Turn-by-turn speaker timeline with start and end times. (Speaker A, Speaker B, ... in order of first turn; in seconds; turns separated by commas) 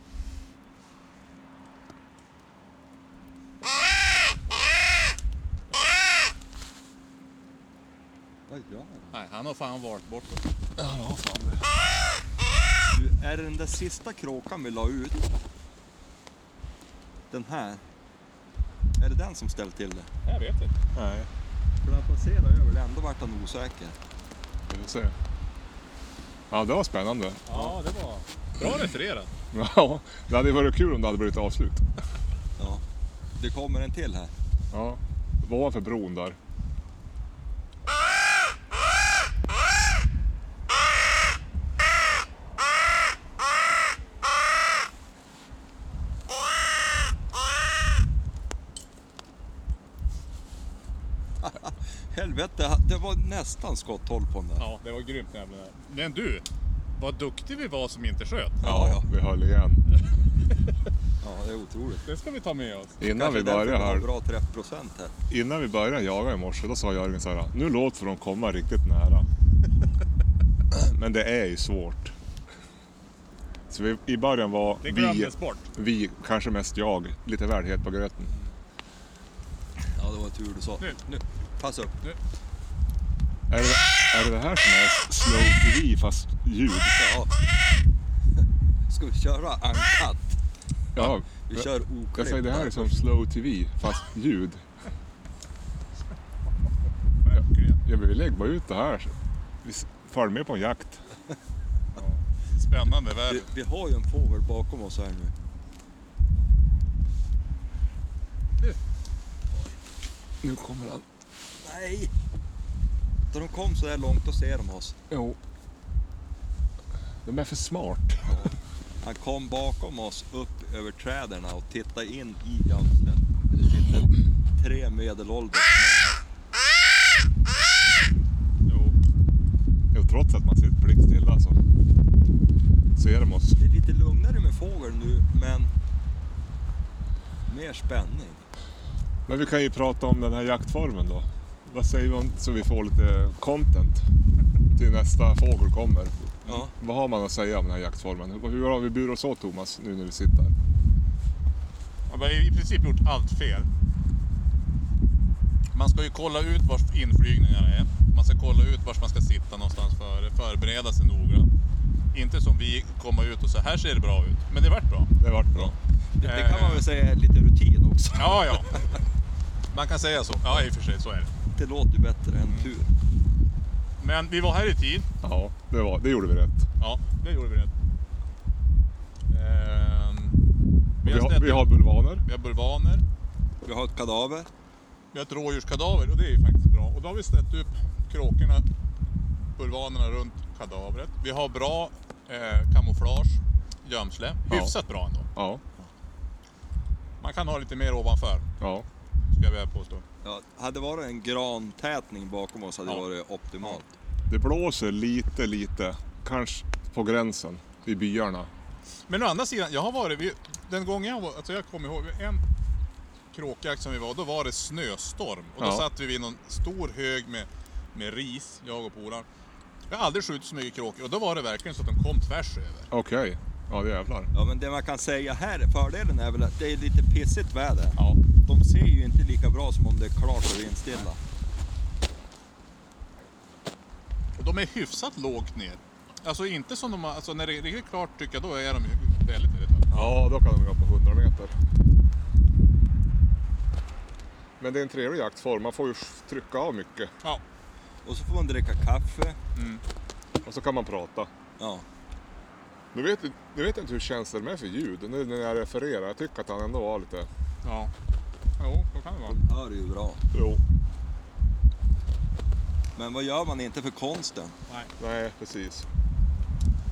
Speaker A: 8.5-9.2, Speaker B: 9.1-10.4, Speaker C: 10.8-11.6, Speaker A: 12.9-15.3, Speaker A: 17.3-17.8, Speaker A: 19.0-20.1, Speaker B: 20.2-20.7, Speaker C: 20.9-21.3, Speaker A: 21.8-23.9, Speaker C: 24.7-25.1, Speaker C: 26.5-27.5, Speaker B: 27.5-29.3, Speaker C: 29.5-31.9, Speaker A: 32.6-32.8, Speaker A: 33.4-34.3, Speaker C: 34.7-36.4, Speaker A: 51.4-54.6, Speaker B: 54.6-56.4, Speaker B: 57.0-58.6, Speaker A: 58.6-59.0, Speaker C: 58.6-59.8, Speaker A: 61.2-62.0, Speaker B: 62.0-63.0, Speaker C: 63.0-64.1, Speaker A: 63.1-65.1, Speaker C: 65.3-69.3, Speaker C: 70.7-72.1, Speaker C: 73.7-78.3, Speaker B: 74.8-75.7, Speaker A: 79.9-81.9, Speaker C: 83.5-87.0, Speaker A: 87.0-87.3, Speaker A: 88.9-90.4, Speaker C: 90.9-94.6, Speaker A: 91.0-93.1, Speaker B: 97.2-97.8, Speaker C: 97.8-101.0, Speaker B: 101.9-103.5, Speaker A: 103.3-105.3, Speaker C: 110.4-111.0, Speaker A: 111.6-112.1, Speaker A: 113.3-115.0, Speaker C: 115.1-115.4, Speaker C: 117.2-118.3, Speaker A: 118.2-126.2, Speaker B: 128.7-128.9, Speaker C: 129.9-131.6, Speaker C: 132.9-133.6, Speaker A: 133.6-135.7, Speaker A: 137.5-138.4, Speaker C: 139.3-144.1, Speaker C: 144.7-150.5, Speaker A: 146.4-146.7, Speaker B: 152.1-153.7, Speaker B: 155.7-161.5, Speaker B: 162.1-166.8, Speaker C: 165.2-165.8, Speaker A: 166.2-168.8, Speaker B: 168.1-168.8, Speaker B: 169.7-171.3, Speaker A: 171.6-172.9, Speaker B: 172.4-172.7, Speaker B: 174.0-175.1, Speaker C: 175.2-176.7, Speaker B: 176.8-177.7, Speaker B: 179.3-180.4, Speaker B: 181.0-183.0, Speaker C: 181.0-182.2, Speaker A: 183.6-184.5, Speaker B: 185.1-188.6, Speaker B: 189.6-195.3, Speaker C: 194.5-194.8, Speaker C: 195.3-195.6, Speaker B: 197.2-198.5, Speaker C: 198.6-198.8, Speaker B: 199.3-200.0, Speaker A: 200.2-203.9, Speaker C: 204.3-208.5, Speaker B: 209.1-212.4, Speaker B: 213.3-219.2, Speaker C: 215.6-215.9, Speaker B: 219.9-222.9, Speaker C: 222.9-224.3, Speaker A: 224.3-231.2, Speaker B: 234.4-240.0, Speaker C: 239.9-241.5, Speaker C: 244.6-247.1, Speaker A: 248.0-249.4, Speaker B: 249.5-249.8, Speaker C: 250.4-251.3, Speaker A: 251.6-251.8, Speaker C: 252.9-257.3, Speaker B: 257.6-257.9, Speaker B: 258.6-259.4, Speaker A: 259.2-260.2, Speaker C: 260.3-260.6, Speaker A: 262.9-264.5, Speaker C: 265.0-265.9